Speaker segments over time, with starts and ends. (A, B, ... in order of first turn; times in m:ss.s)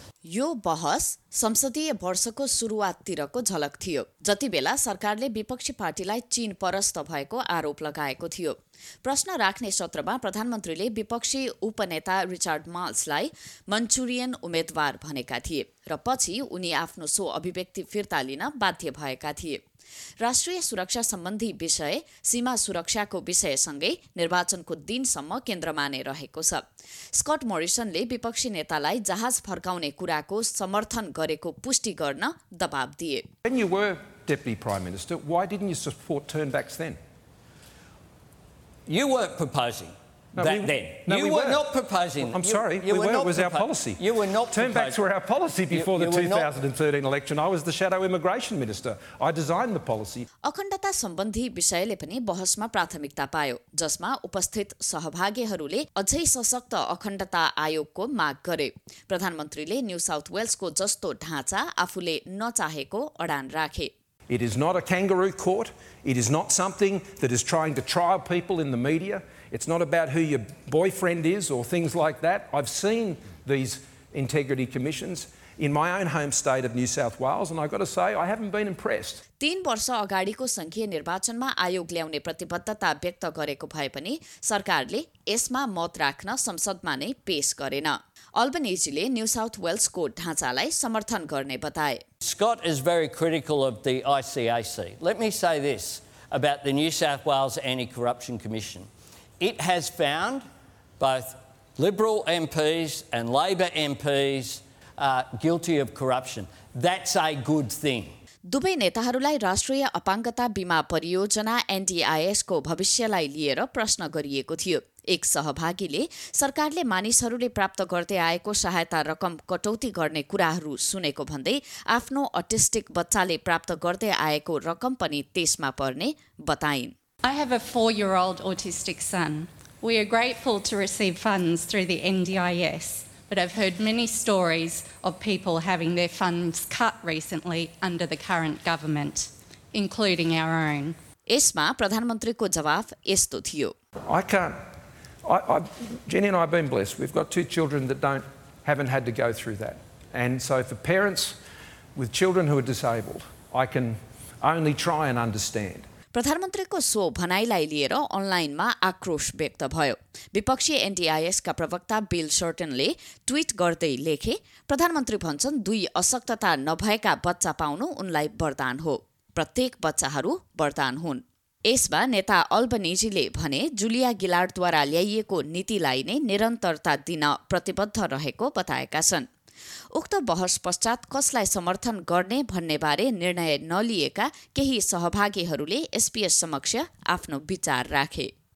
0:00.2-0:19.6 A
0:20.2-0:26.6 A
0:27.1-0:33.3 A
0:33.4-0:37.0 B
0:38.9-0:45.0 C
0:40.4-0:41.6 B
0:42.2-0:50.3 B
0:45.7-0:46.5 C
0:50.4-1:03.9 A
1:04.3-1:19.2 B
1:19.4-1:32.0 A
1:32.2-1:38.9 C
1:39.4-1:40.4 C
1:41.0-1:48.1 C
1:48.5-2:07.0 A
2:07.2-2:21.0 D
2:21.3-2:23.7 A
2:24.1-2:24.6 B
2:25.3-2:31.4 B
2:32.0-2:35.8 B
2:36.1-2:59.3 A
3:00.0-3:08.3 A